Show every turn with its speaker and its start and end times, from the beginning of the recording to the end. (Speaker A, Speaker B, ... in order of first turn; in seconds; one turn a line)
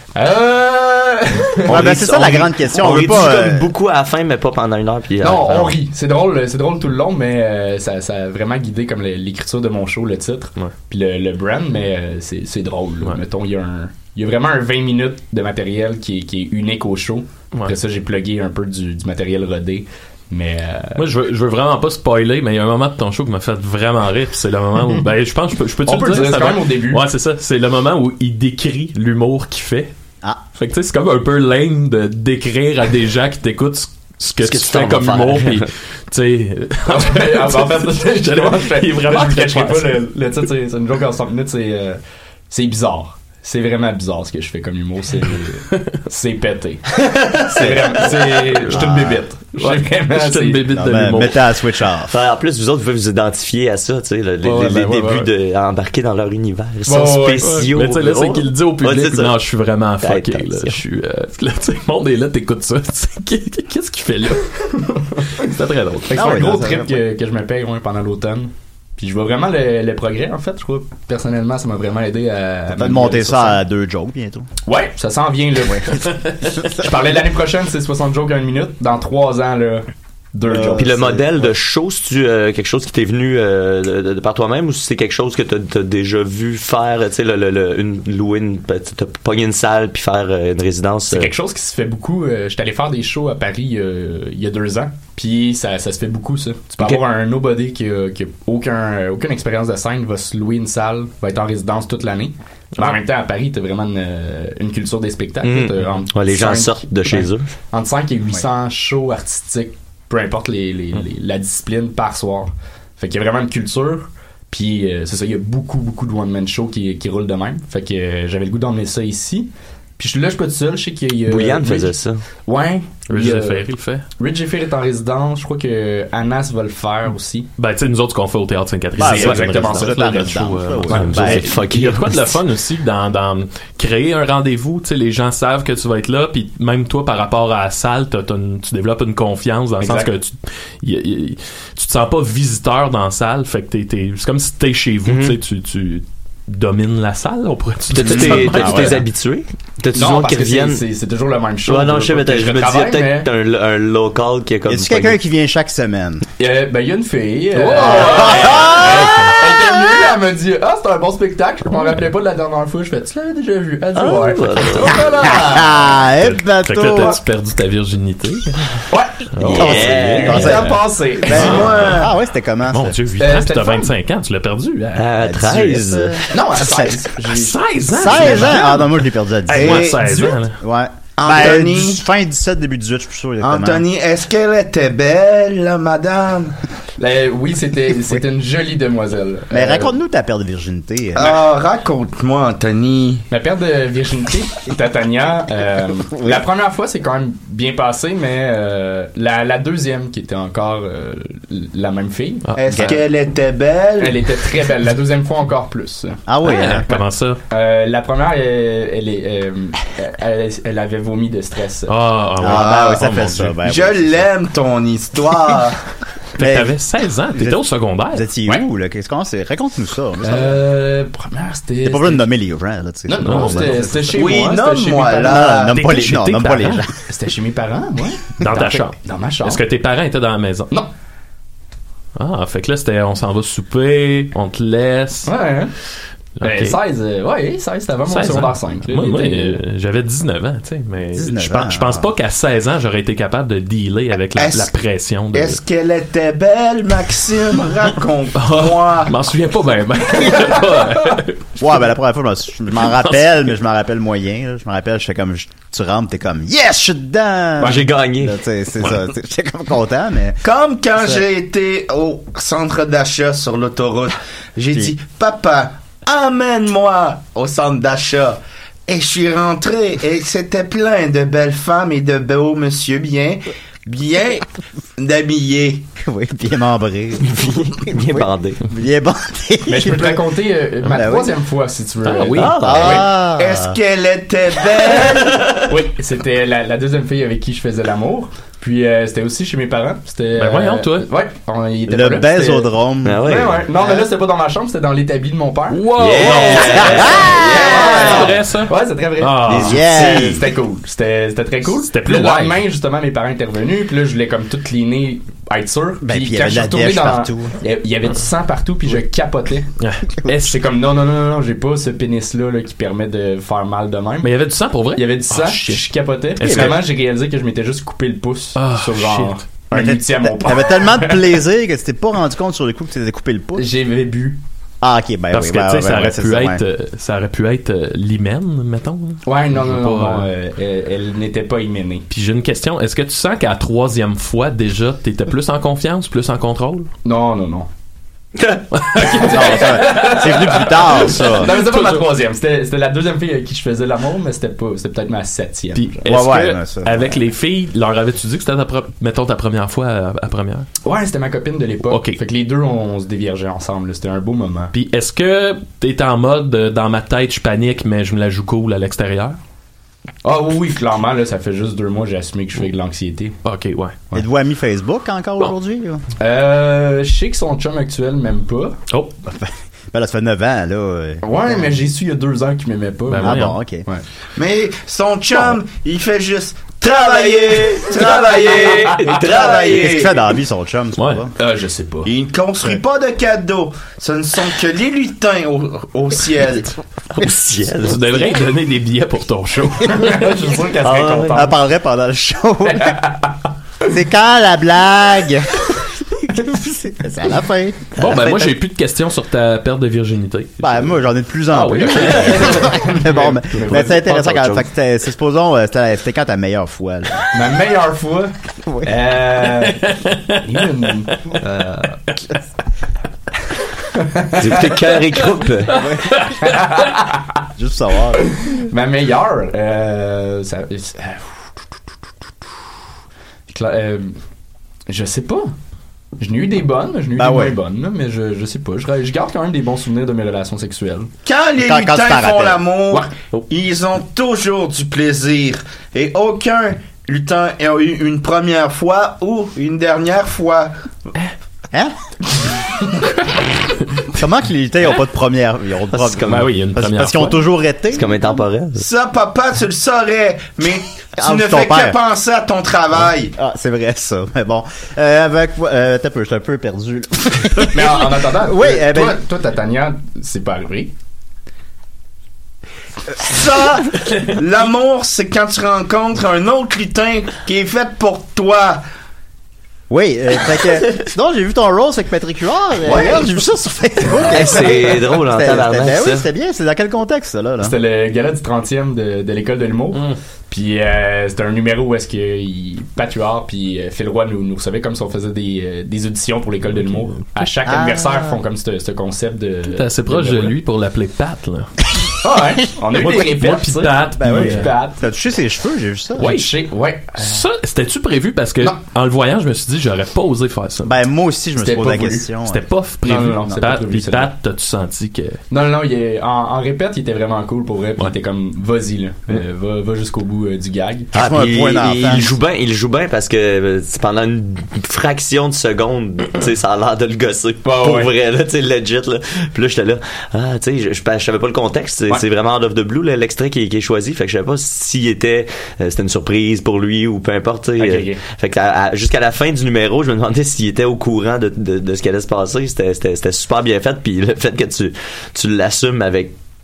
Speaker A: 0.1-2.1
Speaker B: 1.7-3.7
Speaker C: 1.7-5.8
Speaker A: 5.2-21.0
Speaker D: 20.9-29.9
Speaker A: 25.9-27.0
Speaker D: 30.6-40.1
Speaker C: 34.4-35.7
Speaker A: 36.9-50.6
Speaker C: 47.6-47.9
Speaker D: 49.6-51.5
Speaker B: 50.7-52.2
Speaker C: 52.1-59.4
Speaker A: 54.4-55.2
Speaker D: 54.6-55.1
Speaker A: 56.9-57.6
Speaker D: 57.4-64.7
Speaker C: 60.0-60.8
Speaker A: 64.8-65.3
Speaker D: 65.4-66.1
Speaker A: 66.1-73.6
Speaker B: 66.1-67.0
Speaker B: 72.7-74.5
Speaker A: 74.6-81.1
Speaker B: 75.7-76.0
Speaker B: 76.6-76.9
Speaker B: 80.5-81.4
Speaker C: 80.8-91.3
Speaker A: 91.1-121.9
Speaker C: 105.4-107.5
Speaker C: 121.2-122.2
Speaker A: 122.4-123.7
Speaker D: 123.1-124.0
Speaker A: 124.2-127.5
Speaker D: 127.6-149.0
Speaker B: 129.0-131.5
Speaker A: 129.0-130.4
Speaker C: 130.9-132.4
Speaker A: 139.8-140.1
Speaker C: 145.0-145.4
Speaker C: 147.9-150.8
Speaker B: 148.0-149.0
Speaker A: 149.9-153.3
Speaker C: 151.7-155.2
Speaker B: 154.7-156.2
Speaker A: 156.4-165.9
Speaker D: 157.6-159.3
Speaker B: 157.9-159.7
Speaker C: 163.9-165.1
Speaker B: 165.2-167.2
Speaker D: 166.2-168.8
Speaker A: 168.9-171.6
Speaker D: 169.3-170.7
Speaker C: 169.4-170.6
Speaker B: 169.6-172.9
Speaker E: 171.2-172.1
Speaker D: 171.3-172.1
Speaker D: 172.7-175.1
Speaker A: 173.2-173.9
Speaker C: 174.9-176.2
Speaker B: 175.2-177.1
Speaker A: 176.3-178.7
Speaker D: 177.3-180.6
Speaker B: 177.9-183.8
Speaker E: 179.5-180.3
Speaker E: 181.2-182.0
Speaker E: 183.4-186.6
Speaker A: 187.0-189.9
Speaker B: 189.5-191.4
Speaker E: 191.1-193.2
Speaker A: 193.3-202.4
Speaker B: 196.1-196.4
Speaker E: 202.6-204.2
Speaker B: 202.7-203.0
Speaker A: 204.0-206.2
Speaker B: 206.3-206.9
Speaker D: 206.4-207.4
Speaker A: 206.9-211.9
Speaker D: 211.9-213.5
Speaker B: 212.4-214.3
Speaker E: 212.4-213.1
Speaker E: 213.6-215.8
Speaker D: 216.4-218.3
Speaker B: 216.4-216.8
Speaker B: 217.3-220.6
Speaker A: 220.2-222.3
Speaker B: 221.8-224.3
Speaker A: 223.1-225.3
Speaker D: 223.2-223.9
Speaker E: 224.1-225.8
Speaker B: 225.1-226.9
Speaker D: 225.7-226.8
Speaker A: 227.1-229.6
Speaker D: 228.4-230.7
Speaker D: 232.2-235.3
Speaker A: 235.2-235.7
Speaker D: 236.4-236.8
Speaker A: 236.4-239.6
Speaker D: 238.1-245.6
Speaker B: 241.1-242.1
Speaker E: 244.3-244.7
Speaker E: 245.3-249.1
Speaker D: 248.3-251.5
Speaker B: 251.6-260.4
Speaker D: 252.9-253.5
Speaker C: 257.6-258.4
Speaker E: 260.4-274.5
Speaker E: 275.0-275.9
Speaker B: 276.0-280.2
Speaker C: 277.2-278.6
Speaker A: 279.7-283.0
Speaker B: 280.8-281.3
Speaker D: 282.1-282.9
Speaker C: 282.4-283.0
Speaker B: 282.4-283.8
Speaker E: 283.2-285.4
Speaker A: 285.7-292.7
Speaker D: 290.4-291.1
Speaker B: 291.9-293.2
Speaker C: 293.0-293.6
Speaker A: 293.2-309.7
Speaker D: 295.7-300.1
Speaker C: 295.9-298.1
Speaker B: 296.7-298.3
Speaker C: 299.5-300.4
Speaker B: 299.5-300.4
Speaker D: 301.9-302.6
Speaker B: 306.0-307.5
Speaker D: 309.8-310.5
Speaker A: 310.3-314.3
Speaker D: 314.2-316.8
Speaker A: 314.9-321.4
Speaker B: 316.4-316.8
Speaker D: 318.6-319.4
Speaker B: 319.7-323.6
Speaker A: 323.6-324.4
Speaker B: 324.8-326.6
Speaker D: 325.3-330.3
Speaker A: 329.2-332.1
Speaker D: 332.1-336.9
Speaker A: 337.0-337.7
Speaker D: 338.7-339.8
Speaker A: 338.9-346.0
Speaker B: 339.1-341.5
Speaker D: 341.3-342.0
Speaker D: 345.7-350.7
Speaker B: 346.0-347.2
Speaker A: 350.8-354.7
Speaker D: 351.9-352.2
Speaker D: 354.7-359.4
Speaker A: 360.2-363.4
Speaker D: 363.4-363.9
Speaker B: 364.1-366.0
Speaker A: 366.2-368.8
Speaker B: 369.2-371.7
Speaker A: 371.2-374.0
Speaker D: 373.1-373.6
Speaker B: 373.2-373.8
Speaker E: 374.4-380.1
Speaker C: 376.9-380.1
Speaker A: 378.6-379.1
Speaker B: 379.4-381.3
Speaker D: 381.0-381.2
Speaker A: 381.4-382.1
Speaker E: 382.1-386.8
Speaker C: 387.1-388.0
Speaker D: 387.8-390.3
Speaker A: 389.9-391.5
Speaker C: 390.8-391.5
Speaker B: 391.3-393.0
Speaker A: 392.7-393.3
Speaker B: 393.9-398.3
Speaker D: 398.0-401.0
Speaker B: 400.6-407.3
Speaker D: 401.5-402.9
Speaker A: 401.9-404.6
Speaker A: 407.3-412.0
Speaker B: 408.6-408.9
Speaker D: 409.8-410.3
Speaker A: 413.9-414.6
Speaker C: 414.4-415.7
Speaker B: 415.7-416.3
Speaker D: 416.1-416.4
Speaker A: 416.4-417.2
Speaker B: 417.6-418.3
Speaker A: 418.5-421.4
Speaker A: 423.5-424.2
Speaker A: 424.9-425.5
Speaker A: 426.2-431.1
Speaker B: 427.2-427.5
Speaker E: 431.2-440.7
Speaker B: 431.6-432.6
Speaker A: 432.9-433.4
Speaker B: 444.1-448.4
Speaker C: 445.9-446.5
Speaker D: 446.2-447.4
Speaker C: 447.9-448.8
Speaker E: 448.8-453.3
Speaker B: 451.2-452.0
Speaker B: 453.4-459.2
Speaker A: 457.7-460.9
Speaker E: 463.2-468.8
Speaker B: 469.9-477.8
Speaker C: 474.3-476.2
Speaker A: 477.6-490.5
Speaker B: 487.6-488.4
Speaker D: 489.7-491.8
Speaker A: 492.2-495.0
Speaker D: 492.9-494.7
Speaker B: 494.2-496.4
Speaker D: 496.2-496.5
Speaker A: 496.2-497.4
Speaker D: 497.1-500.9
Speaker B: 500.8-502.7
Speaker A: 501.6-502.3
Speaker D: 502.4-505.4
Speaker A: 503.0-504.3
Speaker A: 505.5-511.1
Speaker B: 511.1-512.3
Speaker C: 511.1-536.3
Speaker A: 517.6-518.1
Speaker A: 527.8-528.2